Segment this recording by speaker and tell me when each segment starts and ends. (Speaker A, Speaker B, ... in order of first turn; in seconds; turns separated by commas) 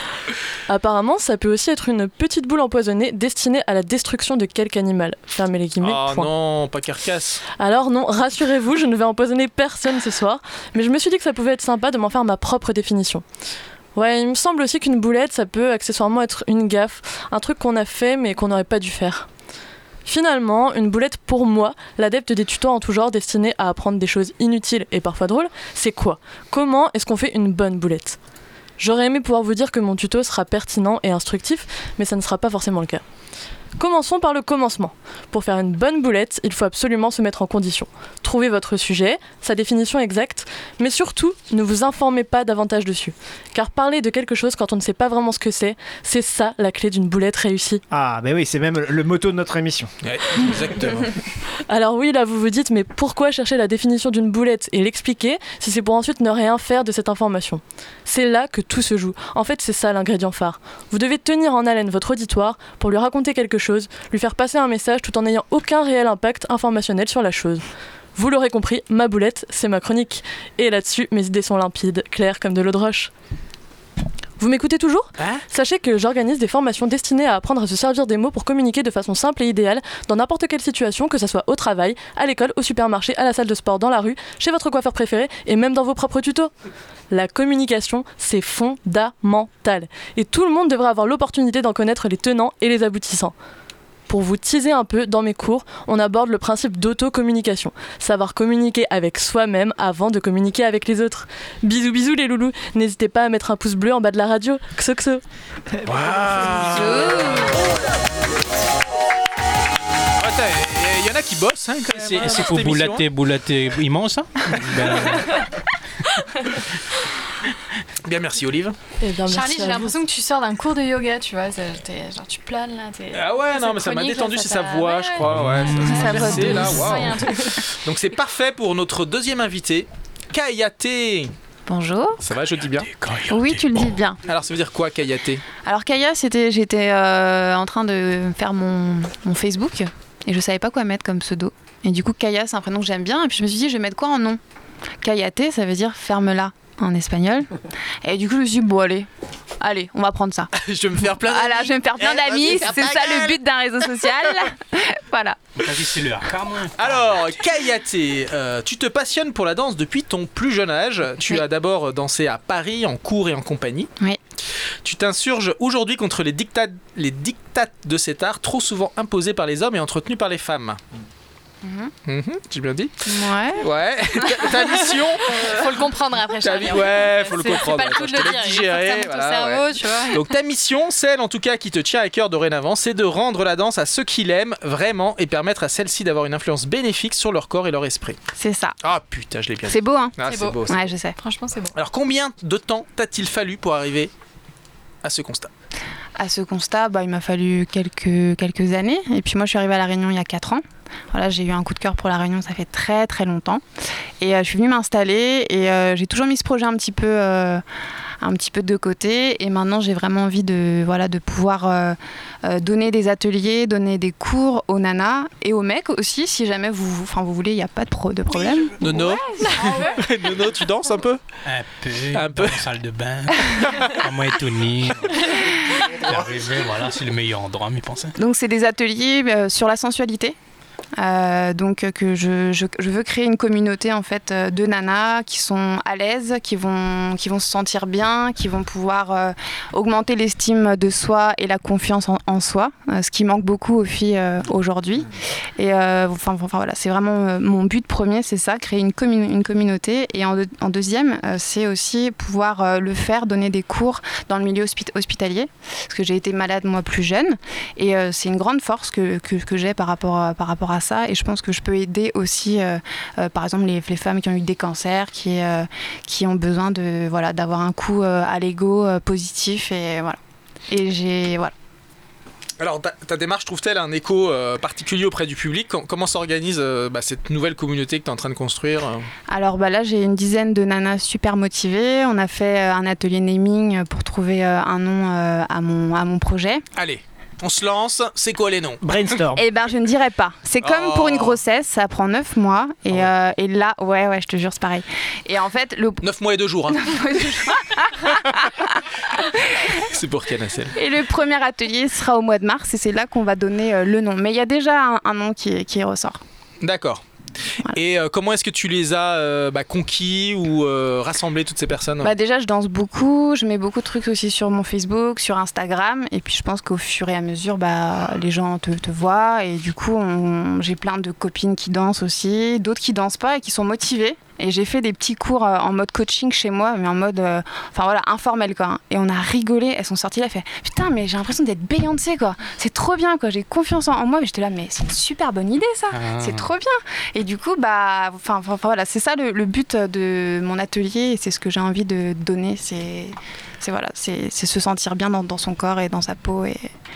Speaker A: 0.7-6.3, Speaker B: 5.8-7.4, Speaker A: 7.6-13.2, Speaker A: 13.9-19.3, Speaker A: 20.1-28.2, Speaker A: 28.8-33.0, Speaker A: 33.8-47.8, Speaker C: 47.9-49.9, Speaker B: 50.0-51.1, Speaker A: 51.7-67.6, Speaker A: 68.1-73.1, Speaker A: 74.4-86.5, Speaker A: 87.1-93.3, Speaker A: 94.1-105.2, Speaker C: 105.8-107.5, Speaker B: 105.9-107.6, Speaker D: 106.6-107.7, Speaker B: 110.2-113.1, Speaker E: 111.9-115.3, Speaker B: 118.0-118.8, Speaker A: 119.0-120.0, Speaker F: 119.2-125.2, Speaker B: 123.1-131.3, Speaker E: 125.2-126.1, Speaker F: 125.9-127.6, Speaker D: 126.0-126.9, Speaker D: 131.7-132.2, Speaker B: 132.2-132.9, Speaker E: 132.8-133.8, Speaker D: 133.3-134.2, Speaker B: 134.2-135.4, Speaker D: 135.7-144.4, Speaker D: 145.0-147.5, Speaker D: 148.0-149.1, Speaker D: 149.6-150.5, Speaker B: 150.5-153.4, Speaker D: 151.1-155.4, Speaker E: 155.6-157.3, Speaker B: 156.8-163.9, Speaker B: 164.8-170.8, Speaker D: 171.6-171.9, Speaker B: 172.1-175.7, Speaker D: 173.0-173.7, Speaker D: 174.2-174.5, Speaker F: 175.3-180.2, Speaker B: 176.4-188.2, Speaker D: 188.4-188.8, Speaker B: 188.8-190.8, Speaker D: 189.7-190.2, Speaker F: 190.2-191.7, Speaker D: 190.7-191.2, Speaker B: 191.7-194.1, Speaker B: 195.0-195.5, Speaker D: 196.2-203.6, Speaker D: 204.2-207.6, Speaker D: 208.2-219.9, Speaker B: 218.8-221.2, Speaker F: 219.6-219.9, Speaker E: 221.5-228.1, Speaker B: 222.1-222.6, Speaker B: 223.6-223.9, Speaker D: 228.2-230.4, Speaker D: 231.0-270.2, Speaker D: 270.7-271.5, Speaker B: 272.6-279.1, Speaker D: 279.3-286.6, Speaker B: 286.8-288.8, Speaker C: 288.8-289.4, Speaker D: 289.3-296.1, Speaker B: 290.6-291.4, Speaker B: 296.0-297.0, Speaker D: 296.7-298.8, Speaker D: 299.4-299.7, Speaker B: 299.6-300.8, Speaker D: 300.7-306.2, Speaker B: 306.6-307.0, Speaker B: 307.7-312.1, Speaker D: 312.0-346.7, Speaker E: 335.9-336.5